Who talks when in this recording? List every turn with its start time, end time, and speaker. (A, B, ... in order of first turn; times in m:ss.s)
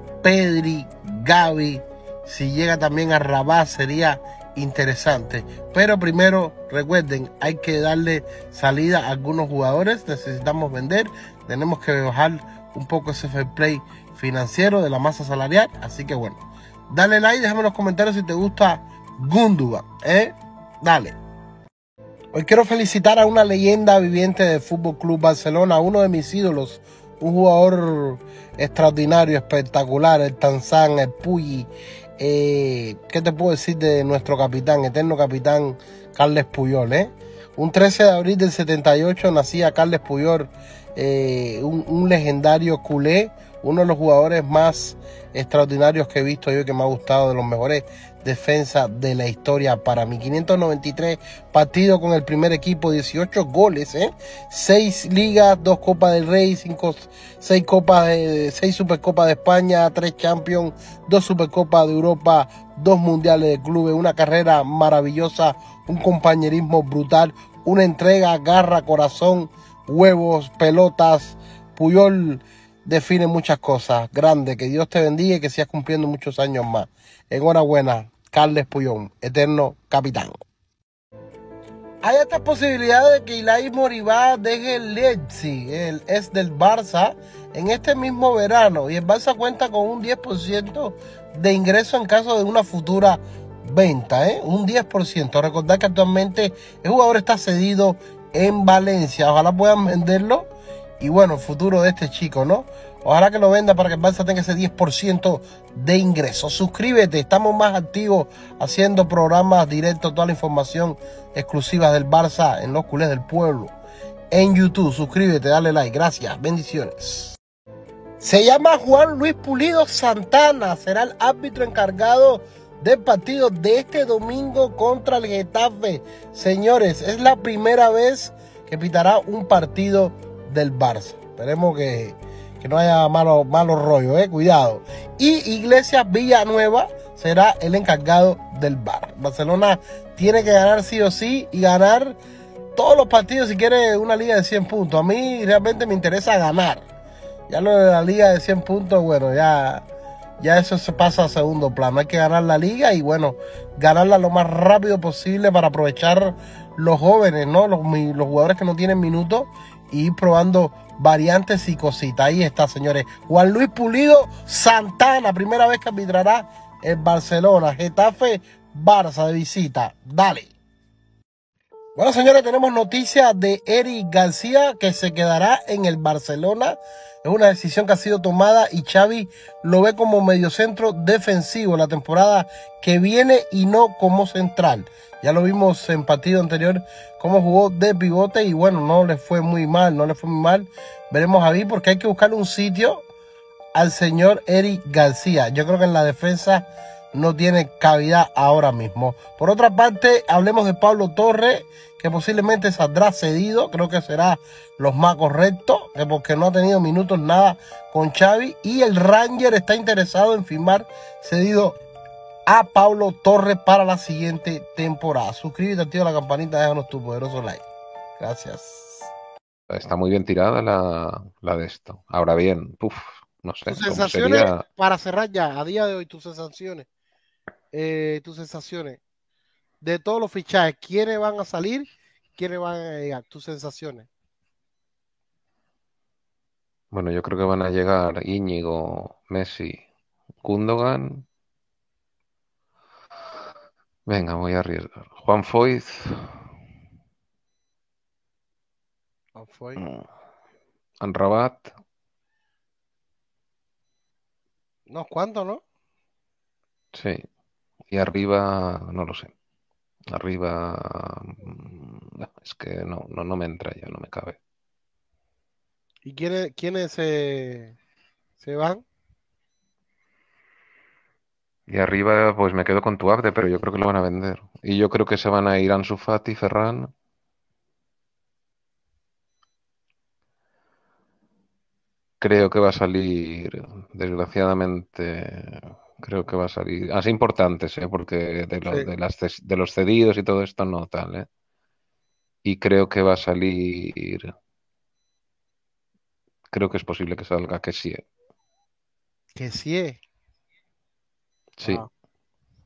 0:00.2-0:21.1 A
0:22.3-1:20.3 A
1:22.0-1:40.5 A
1:41.0-1:53.7 A
1:54.3-1:57.4 A
1:58.2-2:22.2 A
2:22.8-2:26.8 A
2:27.5-2:29.8 A
2:30.4-2:50.5 A
2:52.0-3:13.0 A
3:13.7-3:31.8 A
3:32.5-3:37.6 A
3:38.2-3:39.1 A
3:39.7-3:44.6 B
3:43.7-3:46.9 A
3:47.7-3:49.0 A
3:49.8-3:54.1 A
3:56.9-3:59.8 B
4:00.4-4:01.2 B
4:04.1-4:06.4 B
4:09.3-4:09.8 A
4:09.8-4:10.0 B
4:11.0-4:11.7 B
4:14.9-4:15.6 A
4:16.9-4:17.2 B
4:17.9-4:19.3 B
4:20.1-4:24.4 B
4:26.0-4:27.8 A
4:28.4-4:28.8 A
4:31.7-4:36.9 B
4:42.2-4:51.3 B
4:52.4-4:54.3 B
4:56.5-4:58.0 B
4:59.3-5:00.0 A
5:01.6-5:01.8 B
5:01.6-5:01.9 A